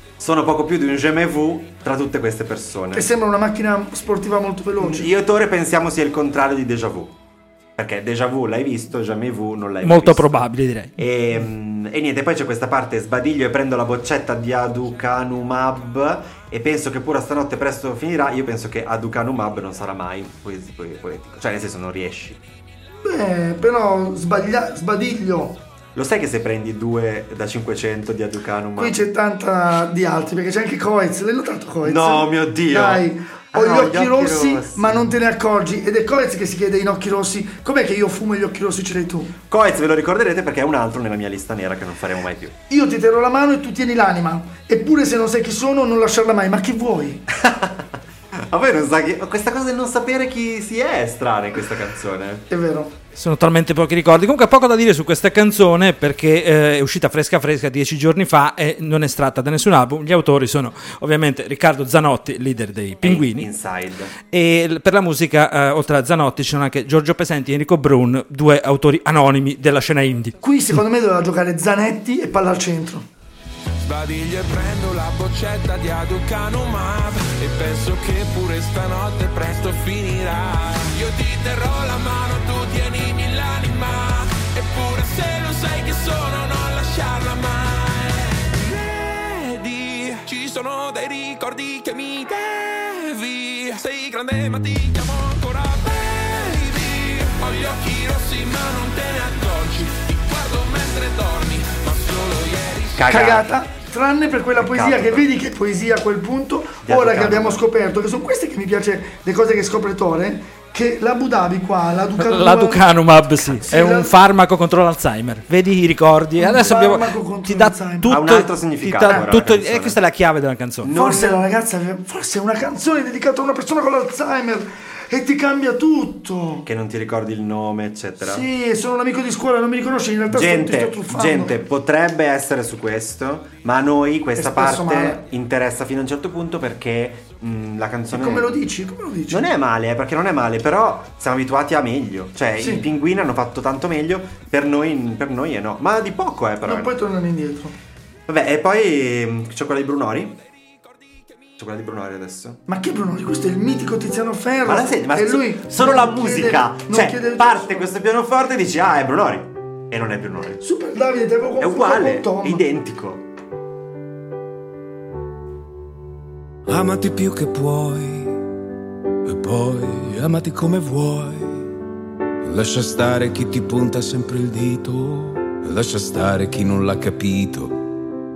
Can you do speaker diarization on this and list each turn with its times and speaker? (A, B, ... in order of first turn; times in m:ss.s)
0:00.2-0:03.1 A
0:02.9-0:05.1 B
0:04.8-0:07.1 A
0:07.8-0:10.3 A
0:09.8-0:10.9 C
0:11.0-0:22.4 A
0:23.0-0:25.6 B
0:25.9-0:29.0 A
0:28.8-0:39.3 B
0:31.8-0:35.1 A
0:39.5-0:42.6 A
0:42.7-0:47.2 B
0:47.3-0:52.4 A
0:52.5-0:52.9 B
0:53.1-1:03.5 C
1:03.0-1:04.1 A
1:04.3-1:10.4 C
1:10.4-1:13.0 B
1:13.8-1:43.0 D
1:42.9-1:43.6 A
1:43.1-1:52.9 B
1:44.6-1:45.3 A
1:46.8-1:47.6 A
1:52.2-2:00.9 C
1:53.4-1:54.1 B
1:56.4-1:58.2 B
1:58.1-2:00.0 A
2:00.8-2:01.4 A
2:00.9-2:06.6 B
2:06.6-2:08.5 A
2:08.2-2:11.5 B
2:10.3-2:18.5 A
2:14.4-2:15.2 B
2:18.1-2:19.4 B
2:19.3-2:26.9 A
2:22.6-2:22.8 B
2:26.6-2:27.8 B
2:28.3-2:30.4 A
2:31.6-2:32.6 A
2:32.7-2:38.0 B
2:34.6-2:40.6 A
2:40.6-2:42.6 B
2:41.6-2:43.2 A
2:46.7-2:48.4 E
2:49.2-2:51.7 E
2:52.4-2:57.8 E